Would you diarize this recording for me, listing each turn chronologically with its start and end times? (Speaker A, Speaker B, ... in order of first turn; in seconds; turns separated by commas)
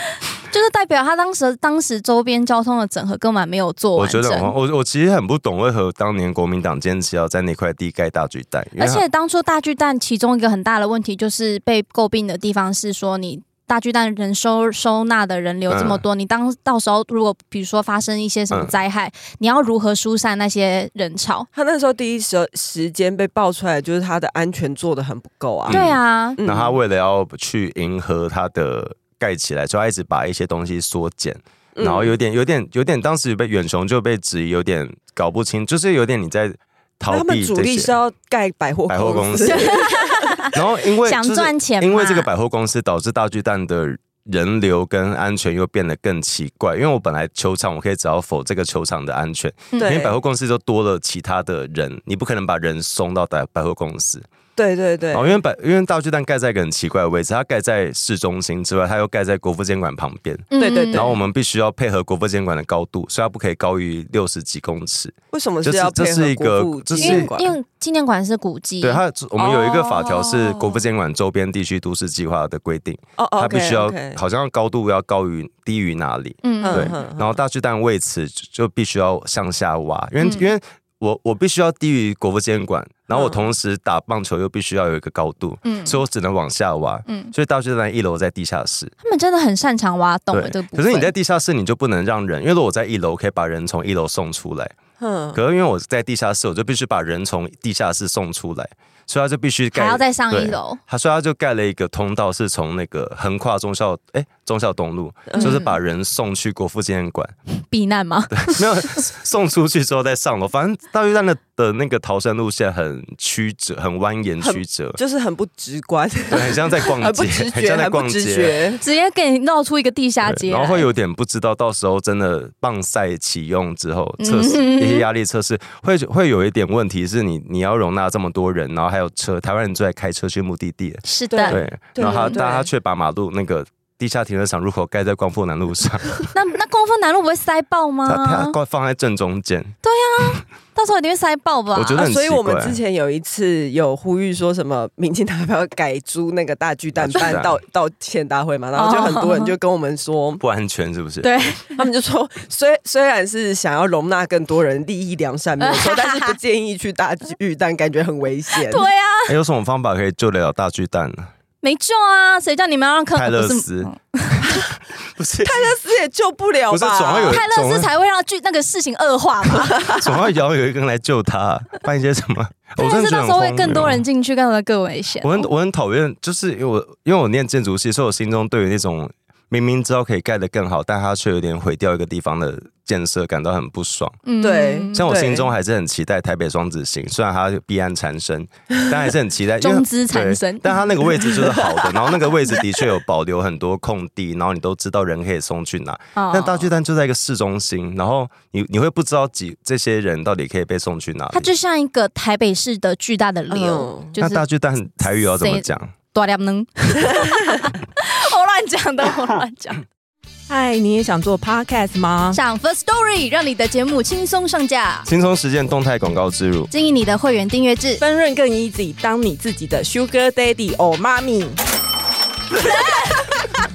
Speaker A: 0.5-4.5, Speaker B: 4.0-9.1, Speaker A: 8.8-21.5, Speaker B: 15.7-16.0, Speaker C: 21.5-25.8, Speaker A: 25.7-26.4, Speaker B: 25.7-38.0, Speaker C: 26.4-26.8, Speaker C: 31.8-32.1, Speaker C: 37.1-40.4, Speaker B: 38.9-39.8, Speaker A: 39.5-40.5, Speaker B: 40.5-54.3, Speaker A: 41.0-42.3, Speaker C: 49.8-50.1, Speaker C: 54.6-55.4, Speaker B: 55.1-67.3, Speaker A: 60.5-61.1, Speaker C: 60.6-61.1, Speaker C: 65.3-67.5, Speaker A: 67.0-69.0, Speaker B: 68.8-88.9, Speaker C: 69.4-70.8, Speaker C: 73.2-74.2, Speaker A: 76.4-76.9, Speaker C: 76.6-77.4, Speaker A: 80.2-80.5, Speaker C: 83.1-83.5, Speaker A: 85.6-86.0, Speaker A: 87.1-87.3, Speaker A: 89.0-91.1, Speaker B: 90.3-94.8, Speaker C: 95.0-95.4, Speaker B: 95.3-107.3, Speaker A: 99.7-100.8, Speaker C: 105.3-105.6, Speaker A: 105.4-105.7, Speaker A: 107.7-109.0, Speaker B: 108.3-115.0, Speaker C: 114.4-118.8, Speaker B: 116.3-118.6, Speaker A: 118.8-120.9, Speaker B: 120.2-136.3, Speaker A: 124.2-125.1, Speaker A: 131.1-132.4, Speaker C: 131.3-132.7, Speaker A: 136.3-138.6, Speaker B: 138.1-139.7, Speaker A: 139.8-142.1, Speaker B: 141.7-142.8, Speaker C: 142.0-150.4, Speaker B: 147.0-147.6, Speaker A: 148.8-149.6, Speaker B: 150.4-151.3, Speaker A: 151.2-151.8, Speaker C: 151.8-158.9, Speaker A: 155.6-156.3, Speaker A: 158.6-159.3, Speaker B: 159.3-161.3, Speaker A: 161.6-164.5, Speaker B: 163.2-165.7, Speaker C: 165.4-167.4, Speaker B: 166.7-167.9, Speaker A: 167.3-170.0, Speaker B: 170.0-174.1, Speaker A: 172.8-175.5, Speaker B: 175.2-184.2, Speaker A: 184.2-185.0, Speaker C: 184.4-185.5, Speaker B: 184.9-201.5, Speaker A: 189.6-191.3, Speaker A: 196.2-196.7, Speaker A: 201.3-204.4, Speaker C: 203.5-204.1, Speaker B: 204.2-205.9, Speaker A: 205.2-209.8, Speaker C: 210.5-212.4, Speaker A: 212.3-215.1, Speaker B: 215.1-216.7, Speaker A: 216.7-218.0, Speaker C: 218.0-221.6, Speaker A: 222.7-223.0, Speaker C: 222.7-222.9